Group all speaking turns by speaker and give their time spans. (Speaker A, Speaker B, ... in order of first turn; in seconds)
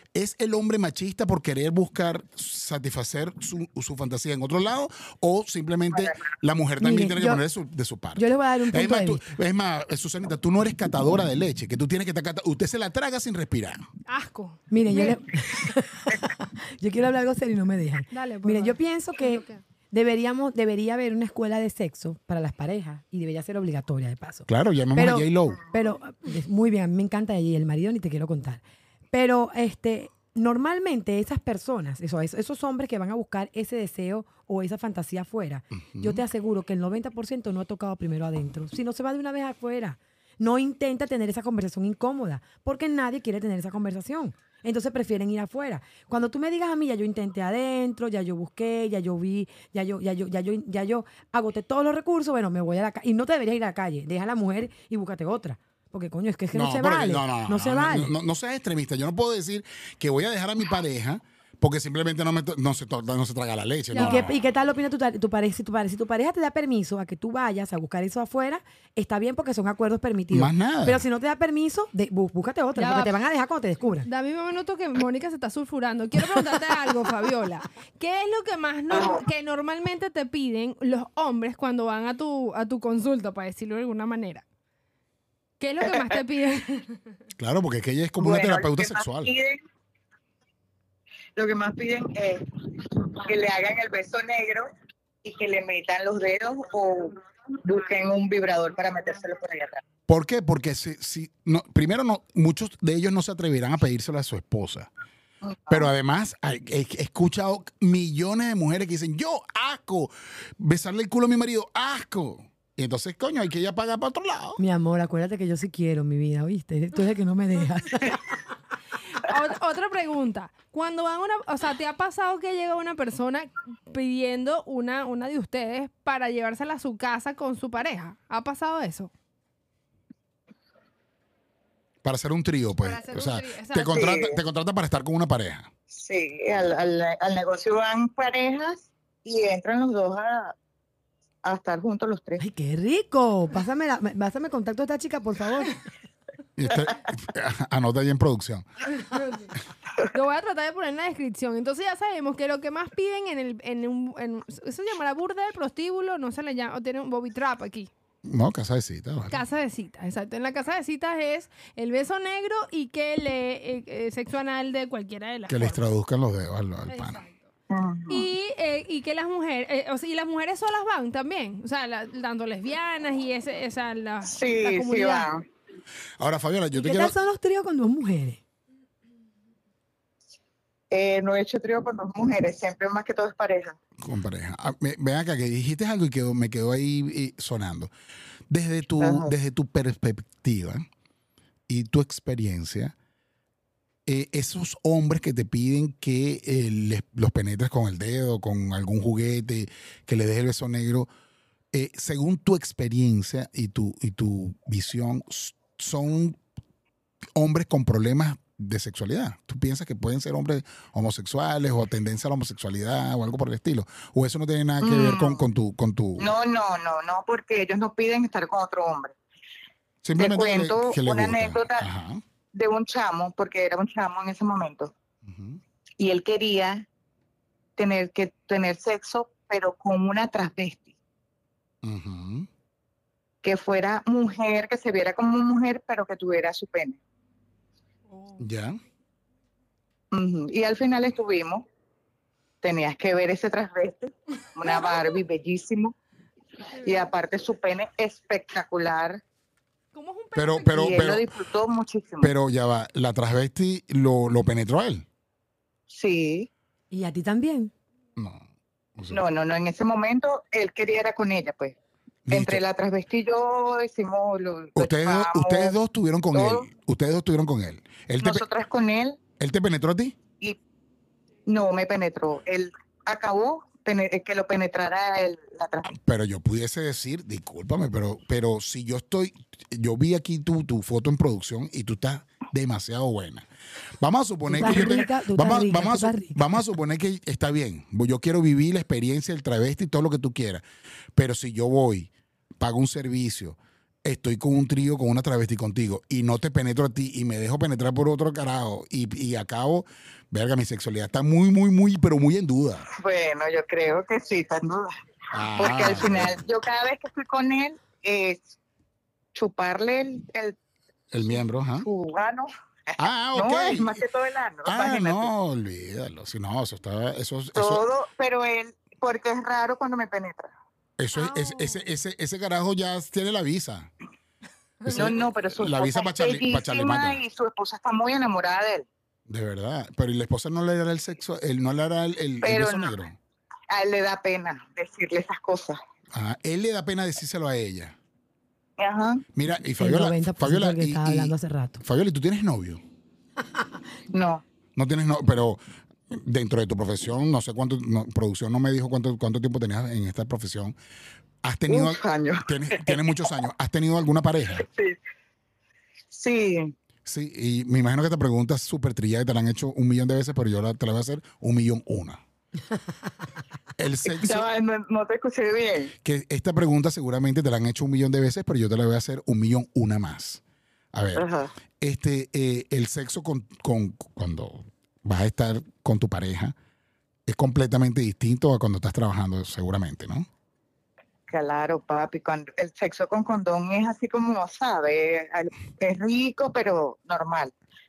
Speaker A: 0.1-13.9, 24.5-25.6, 35.8-36.2, 56.5-64.3, 70.3-71.0, 87.4-89.3, 100.1-104.9, 105.7-114.6, 132.0-135.7, 146.6-148.7, 158.2-159.4, 165.5-167.2, 176.2-177.2, 184.0-187.9, 188.5-190.8, 191.7-192.9, 194.1-201.1, 201.7-206.4, 207.4-216.3, 220.0-222.2, 225.2-225.6, 231.8-232.5, 238.4-238.8, 250.3-251.3, 252.2-255.0, 258.2-258.4, 259.0-259.2, 262.3-262.6, 264.8-268.4, 269.4-270.2, 275.9-283.4, 284.0-290.6, 291.1-302.9, 305.3-306.4, 311.1-311.9, 313.0-314.0, 314.6-317.8, 321.0-323.9, 324.8-327.2, 329.3-333.2, 336.1-337.9, 339.3-342.8, 344.8-350.8, 351.4-354.7, 357.0-362.2, 363.8-364.4, 366.0-370.4, 370.9-371.2, 371.8-376.5, 377.3-380.3
Speaker B: 5.9-6.2, 78.9-79.2, 88.2-89.6, 91.4-94.7, 95.2-99.8, 105.4-105.9, 133.9-134.4, 135.9-140.5, 141.4-142.4, 167.7-168.3, 174.2-175.4, 180.9-183.8, 189.0-189.3, 214.8-215.4, 216.2-219.2, 220.2-221.9, 222.5-224.9, 226.0-226.9, 227.8-230.9, 233.4-237.0, 240.1-241.7, 242.6-245.9, 246.8-249.2, 250.7-252.3, 255.9-256.5, 259.1-261.8, 262.3-265.8, 266.3-266.7, 268.2-269.2, 271.4-275.9, 303.0-304.9, 305.6-308.6, 309.3-310.6, 311.8-315.3, 317.6-320.5, 324.9-328.9, 332.4-332.9, 333.7-335.8, 338.8-339.2, 344.1-344.4, 351.7-353.1, 354.6-355.0, 356.1-356.8, 364.1-365.9, 371.1-371.5, 381.3-387.5
Speaker C: 6.8-7.4, 8.2-9.4, 14.7-58.1, 63.9-74.1, 114.6-118.3, 142.4-145.8, 176.7-178.4, 256.9-257.7, 284.5-286.6, 339.8-341.8
Speaker D: 14.1-15.2, 18.1-19.6, 63.9-64.3, 72.8-73.2, 74.0-84.4, 85.6-87.0, 119.1-129.1, 132.8-134.1, 148.9-157.9, 159.3-165.8, 166.9-167.5, 168.1-175.3, 238.1-238.4, 244.6-245.2, 246.8-247.1, 249.9-251.0, 321.1-321.9